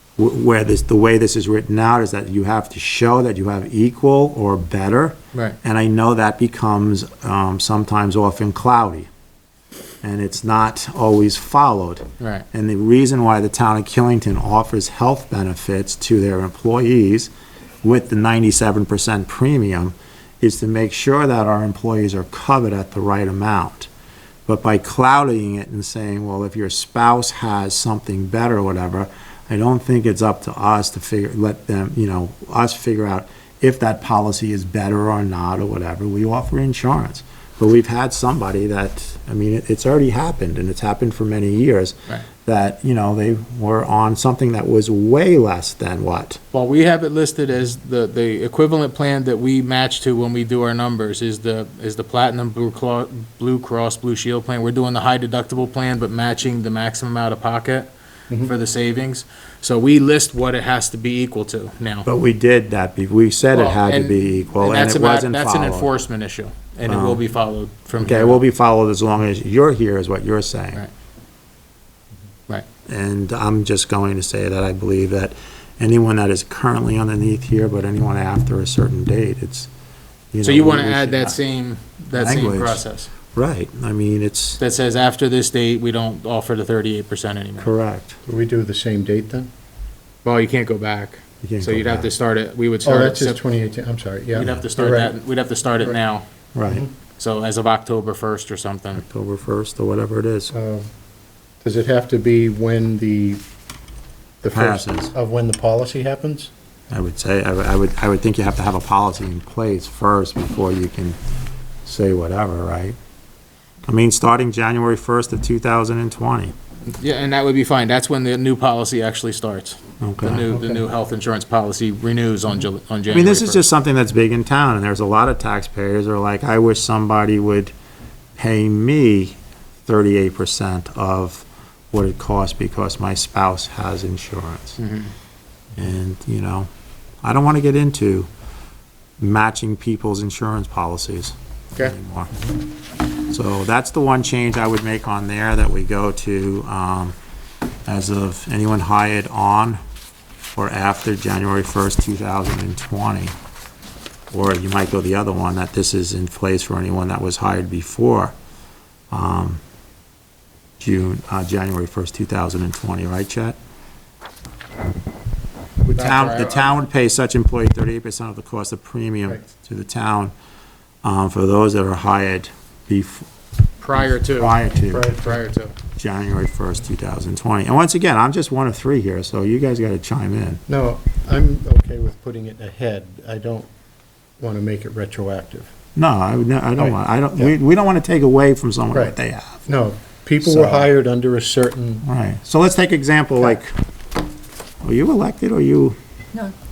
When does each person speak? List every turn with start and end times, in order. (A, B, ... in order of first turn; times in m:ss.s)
0:00.2-0:09.1 A
0:10.0-0:17.3 A
0:12.2-0:12.4 B
0:17.8-0:23.9 A
0:24.5-0:46.4 A
0:46.5-1:02.1 B
1:02.0-1:05.9 A
1:03.5-1:08.4 B
1:06.8-1:07.2 A
1:08.0-1:10.8 A
1:12.8-1:19.7 A
1:20.3-1:21.4 A
1:20.4-1:23.1 B
1:22.1-1:22.8 A
1:23.3-1:24.6 A
1:24.6-1:27.7 B
1:27.6-1:28.2 A
1:28.2-1:29.5 C
1:30.2-1:33.4 B
1:31.4-1:32.1 A
1:32.8-1:35.2 C
1:34.3-1:36.2 B
1:36.5-1:36.8 A
1:37.2-1:39.0 B
1:38.9-1:40.5 A
1:40.5-1:40.9 C
1:41.6-1:43.4 C
1:44.4-1:46.5 C
1:44.5-1:45.1 A
1:46.9-1:51.2 A
1:51.8-1:53.0 A
1:53.8-1:56.5 A
1:56.9-2:03.6 B
2:00.0-2:00.5 A
2:00.5-2:00.8 C
2:03.1-2:07.7 A
2:08.4-2:14.8 A
2:14.8-2:15.1 B
2:15.8-2:16.7 A
2:17.2-2:18.3 A
2:19.2-2:22.3 A
2:23.3-2:27.1 A
2:27.9-2:29.8 A
2:30.5-2:33.3 A
2:34.3-2:38.3 A
2:39.1-2:39.6 A
2:40.8-2:43.6 A
2:46.0-2:46.8 B
2:46.0-2:50.3 A
2:51.0-2:53.3 A
2:53.8-2:54.6 B
2:54.2-2:55.1 A
2:54.9-2:55.4 C
2:55.2-2:55.8 B
2:56.0-3:00.6 A
3:00.7-3:03.7 C
3:04.4-3:05.7 C
3:05.9-3:09.6 A
3:06.8-3:07.5 C
3:09.6-3:12.0 C
3:10.4-3:10.9 A
3:12.0-3:13.7 A
3:14.8-3:16.0 A